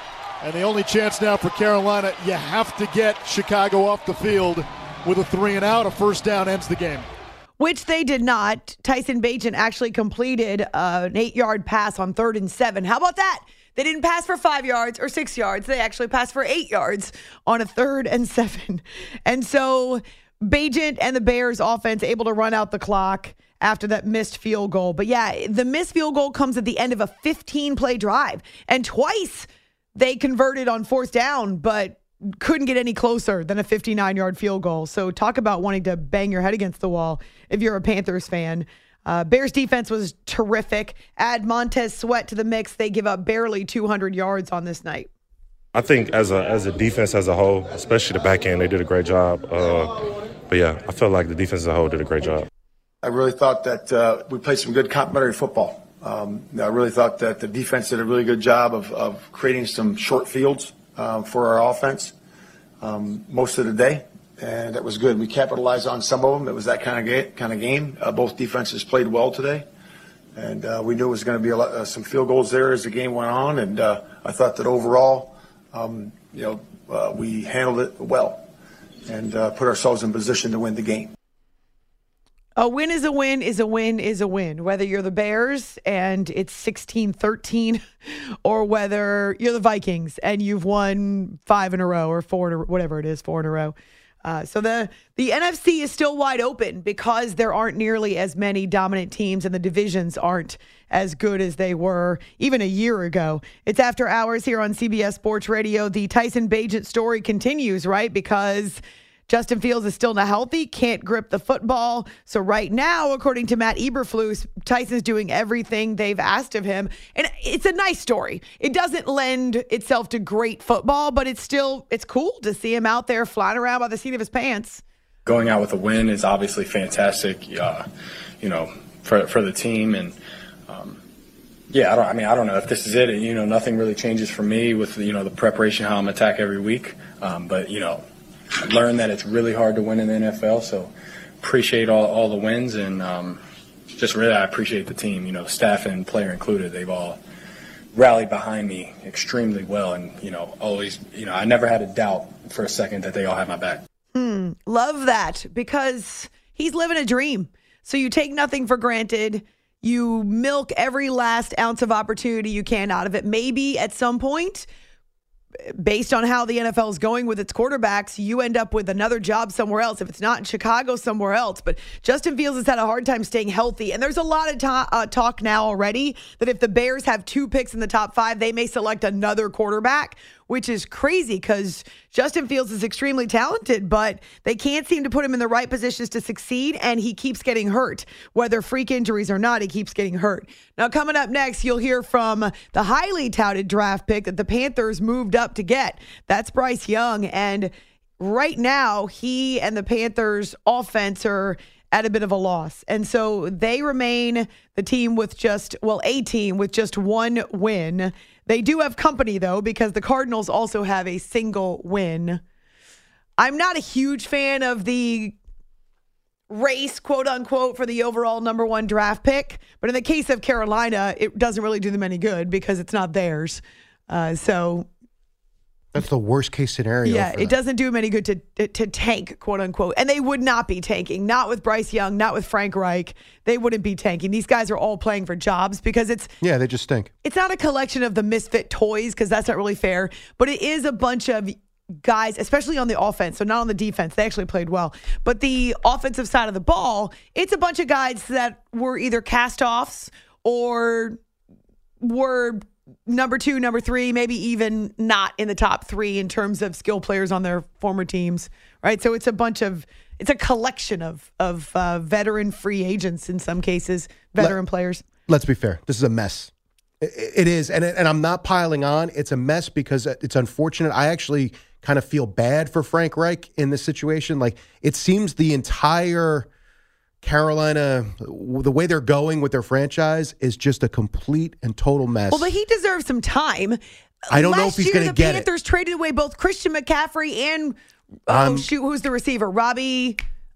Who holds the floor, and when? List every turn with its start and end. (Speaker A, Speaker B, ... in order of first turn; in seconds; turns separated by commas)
Speaker A: 0.4-7.0, Speaker B: 7.6-45.1, Speaker C: 45.7-52.5, Speaker D: 53.0-62.1, Speaker D: 62.8-69.7, Speaker D: 70.3-78.5, Speaker D: 79.1-81.1, Speaker B: 82.6-87.8, Speaker B: 88.4-124.8, Speaker E: 125.2-127.8, Speaker E: 128.4-130.2, Speaker E: 130.7-131.0, Speaker E: 131.7-138.0, Speaker E: 138.6-143.4, Speaker E: 143.9-147.2, Speaker E: 147.9-153.8, Speaker B: 154.1-164.7, Speaker B: 165.6-212.4, Speaker B: 213.4-215.3, Speaker B: 216.5-224.9, Speaker F: 225.9-227.6, Speaker B: 227.0-236.3, Speaker F: 236.4-237.1, Speaker B: 237.2-251.2, Speaker B: 252.0-265.0, Speaker F: 265.2-276.5, Speaker F: 277.2-282.5, Speaker B: 282.3-283.8, Speaker B: 284.3-287.8, Speaker F: 284.3-285.5, Speaker B: 288.3-290.2, Speaker F: 288.3-288.7